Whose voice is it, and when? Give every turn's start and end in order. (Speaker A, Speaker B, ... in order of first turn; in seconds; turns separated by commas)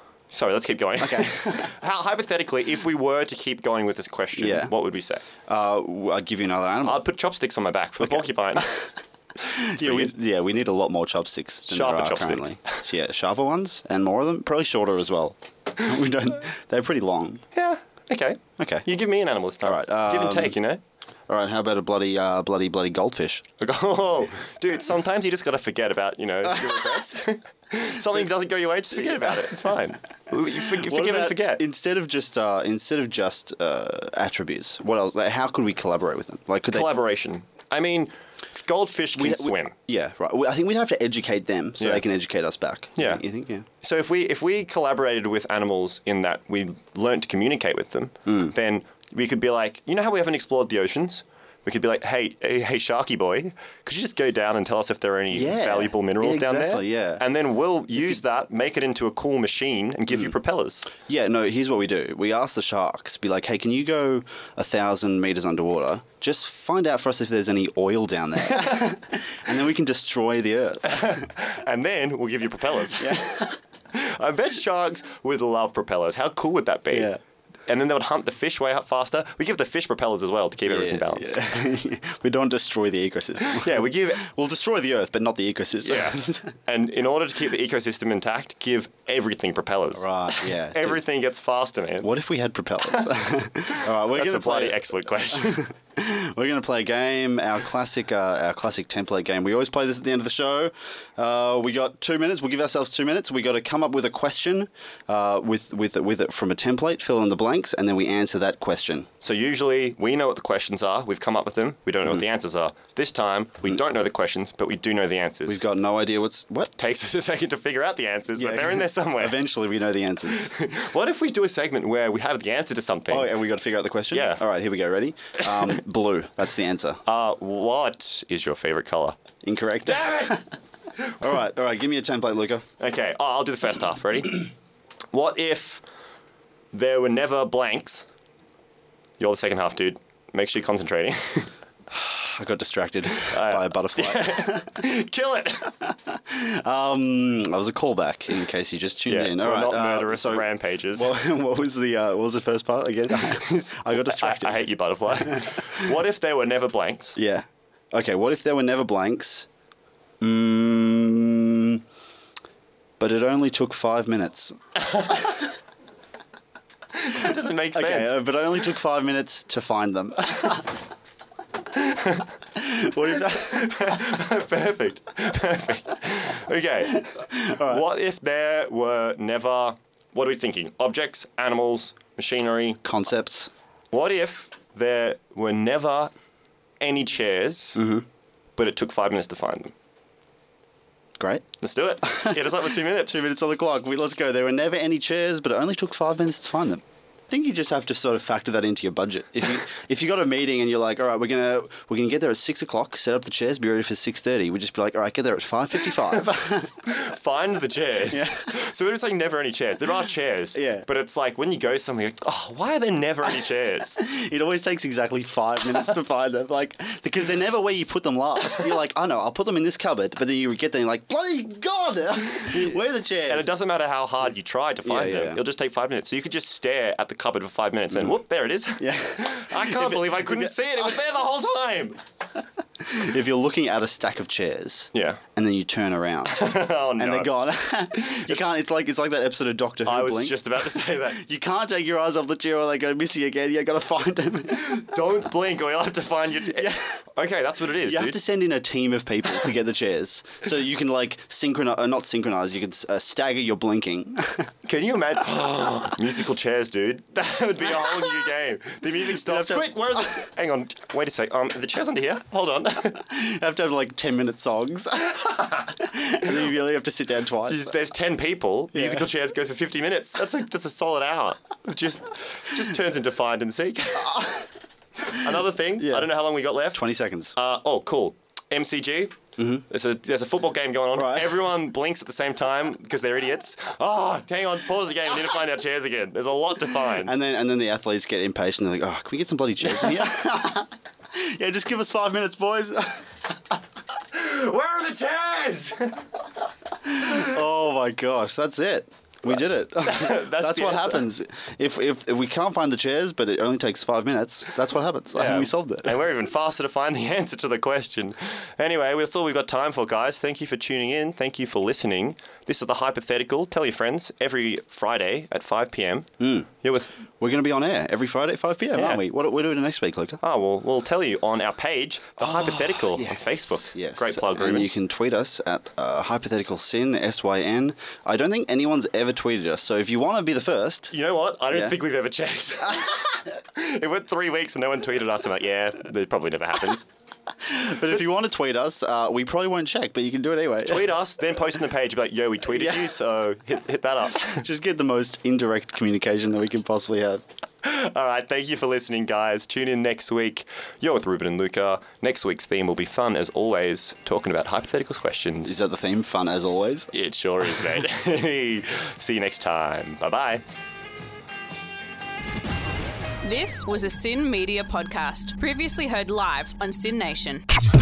Speaker A: 0.3-5.2, Speaker B: 1.0-1.7, Speaker B: 4.3-4.7, Speaker B: 5.4-7.0, Speaker A: 6.8-8.7, Speaker B: 8.0-8.8, Speaker B: 9.4-17.4, Speaker A: 9.6-10.1, Speaker A: 11.7-12.8, Speaker A: 17.5-20.8, Speaker B: 18.6-18.9, Speaker B: 19.6-20.6, Speaker B: 21.3-23.4, Speaker A: 23.6-31.6, Speaker B: 26.5-26.8, Speaker B: 28.9-29.4, Speaker B: 30.5-37.0, Speaker A: 36.7-39.7, Speaker B: 39.1-43.6, Speaker A: 41.8-42.0, Speaker A: 43.0-43.2, Speaker A: 43.8-60.9, Speaker B: 48.3-48.5, Speaker B: 55.3-57.2, Speaker B: 61.0-71.2, Speaker A: 70.8-77.1, Speaker B: 73.0-73.6, Speaker B: 76.9-77.2, Speaker A: 77.7-81.5, Speaker B: 80.7-86.5, Speaker A: 83.4-84.2, Speaker A: 85.8-92.1, Speaker B: 89.9-91.0, Speaker B: 92.0-109.1, Speaker A: 93.7-95.7, Speaker A: 109.2-115.6, Speaker B: 115.5-116.7, Speaker A: 116.8-119.4, Speaker B: 118.4-120.5, Speaker A: 120.3-123.3, Speaker B: 123.1-127.0, Speaker A: 124.1-124.4, Speaker A: 127.0-129.2, Speaker B: 129.4-130.5, Speaker A: 129.9-130.3, Speaker B: 131.2-132.6, Speaker A: 132.8-134.5, Speaker A: 135.1-135.8, Speaker A: 136.7-138.1, Speaker A: 139.2-141.5, Speaker B: 141.9-144.8, Speaker A: 143.3-145.7, Speaker B: 145.9-155.8, Speaker A: 149.1-151.1, Speaker A: 153.3-157.2, Speaker B: 157.2-159.5, Speaker B: 160.2-161.8, Speaker B: 163.0-164.6, Speaker A: 166.9-168.2, Speaker B: 167.7-170.7, Speaker A: 171.8-172.3, Speaker B: 172.6-173.7, Speaker A: 173.2-182.8, Speaker B: 177.3-177.8, Speaker B: 182.8-183.5, Speaker A: 183.9-186.1, Speaker A: 186.8-187.8, Speaker B: 187.8-188.0, Speaker A: 188.6-189.7, Speaker B: 191.2-191.4, Speaker A: 191.6-193.2, Speaker B: 192.0-206.7, Speaker A: 206.8-214.0, Speaker B: 208.1-208.5, Speaker B: 210.5-210.9, Speaker B: 214.0-223.5, Speaker A: 222.4-232.0, Speaker B: 224.8-225.4, Speaker B: 228.8-230.5, Speaker B: 232.8-244.9, Speaker A: 234.9-235.2, Speaker A: 236.3-237.3, Speaker A: 238.0-238.3, Speaker A: 239.8-241.2, Speaker A: 244.5-248.2, Speaker B: 246.4-247.0, Speaker B: 247.8-254.5, Speaker A: 254.7-263.0, Speaker B: 259.2-260.3, Speaker B: 262.9-267.8, Speaker A: 267.5-274.3, Speaker B: 268.7-269.1, Speaker B: 274.1-274.3, Speaker A: 275.0-276.8, Speaker B: 275.8-276.1, Speaker B: 276.7-277.3, Speaker A: 277.4-279.2, Speaker B: 279.4-279.6, Speaker A: 279.7-287.1, Speaker B: 280.9-281.4, Speaker B: 287.0-293.1, Speaker A: 294.1-296.0, Speaker B: 296.9-305.9, Speaker A: 299.8-301.1, Speaker A: 305.1-316.1, Speaker B: 316.2-316.5, Speaker A: 316.6-317.0, Speaker B: 317.2-320.2, Speaker A: 318.7-319.0, Speaker A: 320.2-324.7, Speaker B: 322.2-330.9, Speaker A: 330.9-336.9, Speaker B: 331.5-331.8, Speaker B: 337.4-340.9, Speaker A: 340.6-344.4, Speaker B: 342.5-342.9, Speaker B: 344.1-347.2, Speaker A: 347.6-355.6, Speaker B: 355.4-356.9, Speaker A: 356.9-360.4, Speaker C: 363.2-367.4